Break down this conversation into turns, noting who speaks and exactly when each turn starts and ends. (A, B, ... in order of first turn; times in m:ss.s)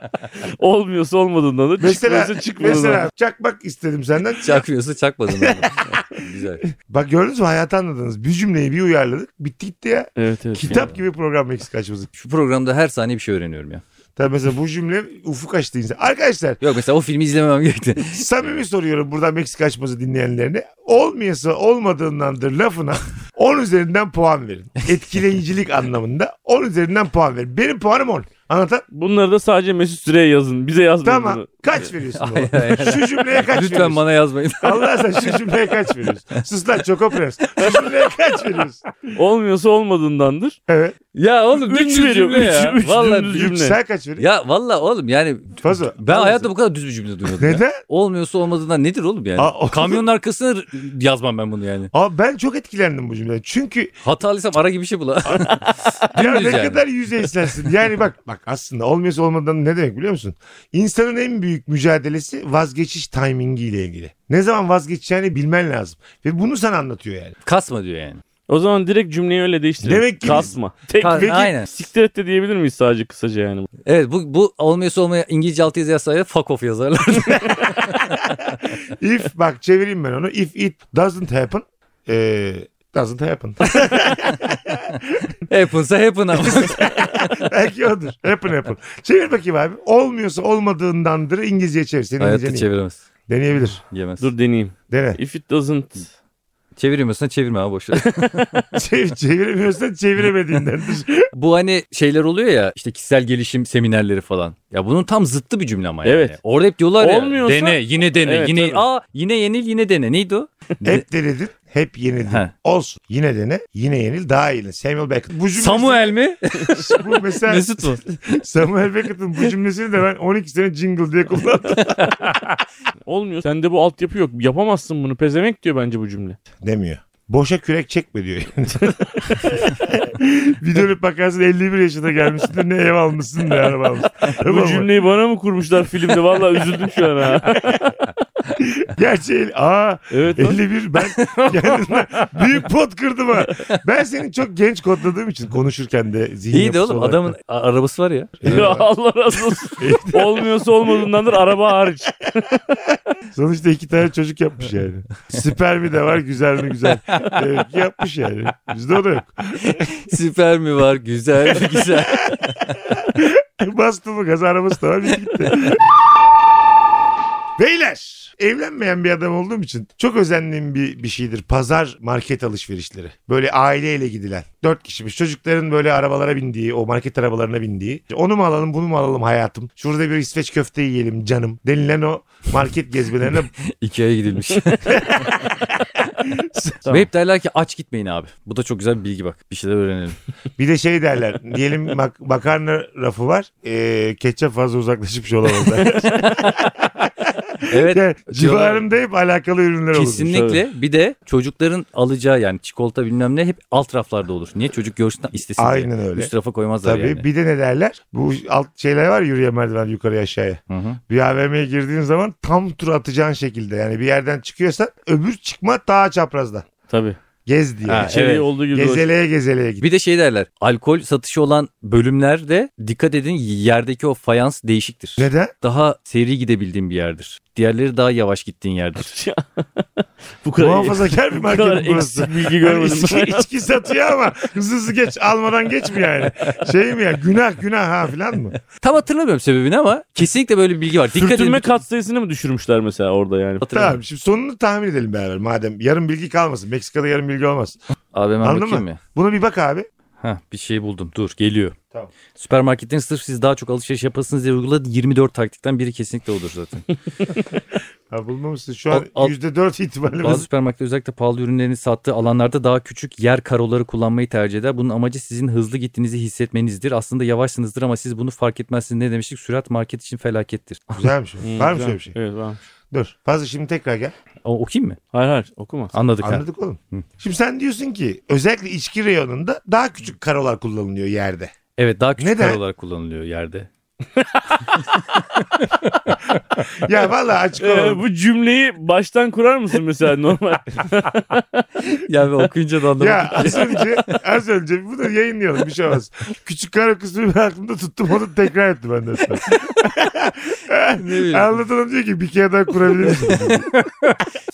0:00.4-0:03.1 A
0:01.8-0:04.6 B
0:04.4-0:06.6 C
0:05.3-0:12.1 B
0:10.2-0:10.9 A
0:12.2-0:13.8 C
0:14.2-0:16.6 B
0:16.6-0:18.5 C
0:18.1-0:28.8 B
0:28.9-0:31.6 A
0:31.0-0:34.0 B
0:32.2-0:35.4 C
0:34.6-0:38.9 B
0:39.1-0:40.6 A
0:40.7-0:41.0 B
0:41.1-0:43.4 C
0:41.5-0:43.8 A
0:43.2-0:44.2 B
0:44.2-0:51.9 C
0:45.6-0:46.5 B
0:47.4-0:47.8 B
0:49.4-0:50.0 B
0:51.9-0:53.9 B
0:54.0-0:56.8 C
0:56.1-1:07.4 B
1:07.4-1:08.2 C
1:08.5-1:13.7 A
1:09.8-1:10.5 B
1:11.0-1:11.7 C
1:11.0-1:11.5 B
1:13.8-1:18.2 C
1:17.3-1:25.3 B
1:25.5-1:27.3 C
1:26.3-1:32.7 B
1:32.2-1:33.0 C
1:33.3-1:33.8 B
1:33.8-1:34.3 C
1:34.2-1:36.1 A
1:34.9-1:35.2 B
1:36.8-1:38.4 C
1:38.0-1:38.6 A
1:38.7-1:41.3 B
1:41.3-1:51.0 C
1:46.0-1:46.4 A
1:47.0-1:48.8 A
1:50.8-1:56.2 B
1:55.5-1:58.0 C
1:56.7-2:02.5 B
2:03.0-2:06.4 A
2:06.6-2:14.9 B
2:14.4-2:17.9 A
2:18.5-2:27.3 B
2:20.1-2:20.6 A
2:21.1-2:21.7 C
2:26.5-2:28.8 C
2:28.4-2:28.8 B
2:28.5-2:32.6 A
2:29.8-2:30.5 B
2:33.3-2:39.9 B
2:39.6-2:42.7 C
2:41.5-2:45.8 B
2:47.6-3:03.5 B
3:03.6-3:05.2 C
3:04.9-3:06.9 B
3:06.9-3:10.2 C
3:10.6-3:20.4 B
3:16.2-3:16.6 C
3:17.7-3:18.8 C
3:19.9-3:27.2 C
3:20.3-3:20.6 A
3:25.6-3:26.3 B
3:26.8-3:36.6 B
3:30.7-3:31.0 C
3:36.9-3:37.2 A
3:37.4-3:38.1 B
3:37.9-3:38.4 C
3:38.0-3:39.1 A
3:38.7-3:39.8 B
3:39.8-3:49.1 C
3:45.2-3:45.5 B
3:49.0-3:53.5 A
3:50.6-3:58.6 B
3:58.8-4:01.7 C
4:01.1-4:03.7 A
4:03.6-4:04.0 C
4:03.7-4:07.8 B
4:08.1-4:09.0 C
4:08.4-4:09.9 B
4:10.2-4:11.8 C
4:12.3-4:16.8 C
4:18.1-4:20.5 B
4:18.9-4:19.3 C
4:20.2-4:31.0 C
4:30.9-4:32.1 B
4:31.4-4:32.6 A
4:32.9-4:34.1 B
4:34.4-4:35.0 C
4:35.1-4:35.9 A
4:35.9-4:37.0 C
4:36.2-4:41.5 B
4:41.8-4:43.7 C
4:42.2-4:42.6 B
4:44.7-4:46.2 C
4:46.6-4:48.0 B
4:47.6-4:51.6 A
4:51.8-4:54.2 C
4:53.0-5:03.7 B
5:00.9-5:01.6 C
5:03.1-5:04.2 C